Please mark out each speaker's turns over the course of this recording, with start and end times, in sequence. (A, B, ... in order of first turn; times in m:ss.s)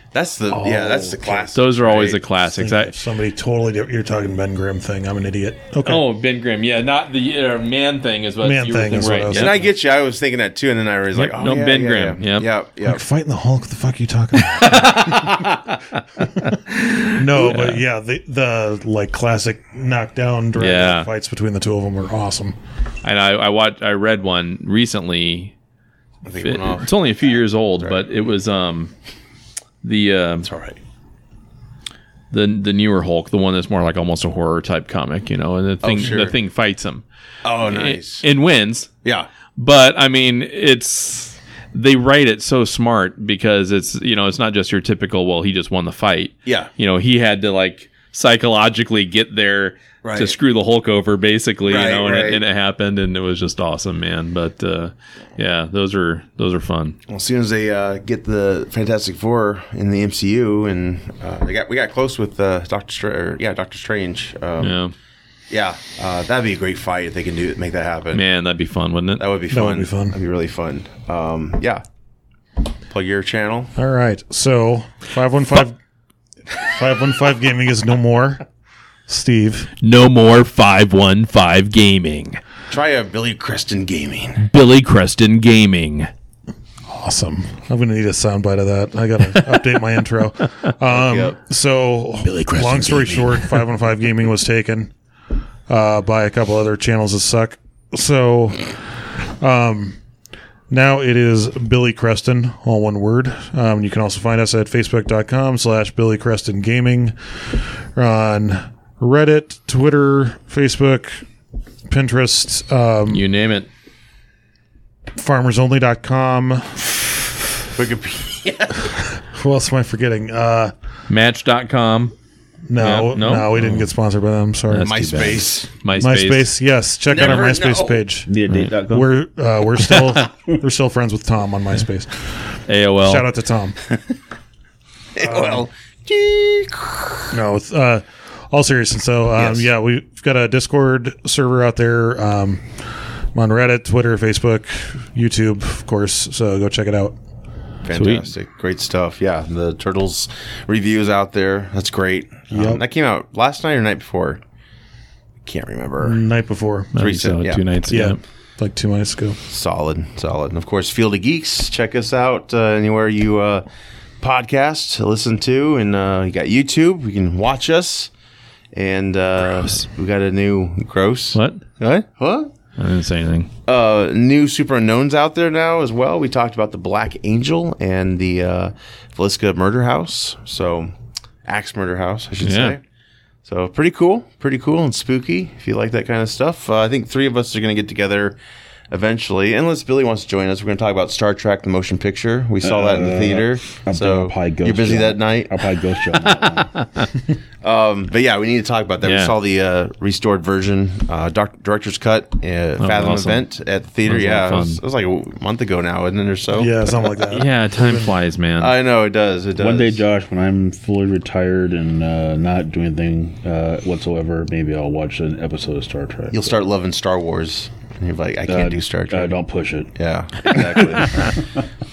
0:00.1-0:02.2 A
0:00.5-0:01.5 B
0:01.5-0:03.0 C
0:02.5-0:06.0 B
0:05.8-0:09.6 C
0:08.4-0:09.6 B
0:09.3-0:13.0 A
0:11.1-0:12.5 C
0:12.8-0:15.5 B
0:14.4-0:17.8 C
0:17.2-0:22.5 B
0:20.5-0:21.1 C
0:23.0-0:25.5 C
0:26.2-0:26.9 A
0:26.4-0:28.9 C
0:27.8-0:28.0 A
0:29.8-0:30.5 C
0:30.4-0:30.8 A
0:32.3-0:37.0 C
0:35.8-0:36.4 A
0:37.4-0:38.2 A
0:37.6-0:38.9 C
0:39.0-0:39.3 A
0:39.6-0:57.0 C
0:46.4-0:46.7 A
0:50.0-0:50.4 A
0:51.7-0:52.4 A
0:57.1-1:04.8 A
1:04.6-1:04.9 C
1:05.5-1:08.2 A
1:08.1-1:09.2 C
1:09.2-1:11.8 A
1:09.5-1:10.2 B
1:12.9-1:13.7 A
1:13.7-1:15.8 B
1:16.6-1:18.4 B
1:19.1-1:19.7 B
1:19.8-1:22.4 C
1:22.7-1:24.4 A
1:24.4-1:26.1 C
1:26.9-1:34.9 B
1:30.8-1:31.4 A
1:32.2-1:33.6 C
1:35.7-1:38.8 B
1:39.4-1:40.0 B
1:40.7-1:51.2 B
1:51.9-1:53.2 B
1:53.1-1:53.7 C
1:55.2-1:57.4 B
1:57.8-1:59.0 A
1:59.2-2:00.7 B
2:01.1-2:02.1 C
2:02.7-2:05.4 B
2:02.8-2:03.9 C
2:04.7-2:06.5 C
2:04.8-2:05.7 A
2:05.9-2:12.4 B
2:07.1-2:08.0 A
2:07.2-2:07.4 C
2:08.3-2:09.1 D
2:09.9-2:10.2 C
2:12.7-2:13.3 C
2:13.0-2:13.8 B
2:15.2-2:17.4 A
2:15.2-2:15.7 B
2:17.3-2:22.8 B
2:19.3-2:19.7 A
2:23.3-2:27.2 B
2:27.8-2:34.4 A
2:27.9-2:28.3 C
2:32.5-2:32.8 B
2:35.4-2:36.2 A
2:36.0-2:36.9 B
2:36.9-2:38.2 C
2:36.9-2:37.7 A
2:37.9-2:39.4 B
2:39.5-2:43.6 A
2:44.2-2:48.1 A
2:48.7-2:52.5 A
2:51.3-2:51.6 C
2:52.8-2:53.5 C
2:53.6-3:00.9 A
3:01.4-3:02.8 A
3:02.4-3:02.7 C
3:03.4-3:08.4 A
3:08.9-3:15.7 A
3:12.6-3:16.7 D
3:16.3-3:17.1 C
3:17.6-3:27.3 A
3:19.0-3:19.3 C
3:22.8-3:23.4 C
3:24.0-3:24.8 C
3:26.5-3:28.1 B
3:27.3-3:28.7 C
3:28.6-3:30.0 A
3:29.6-3:36.6 D
3:36.3-3:39.4 A
3:38.5-3:39.9 D
3:39.9-3:41.4 A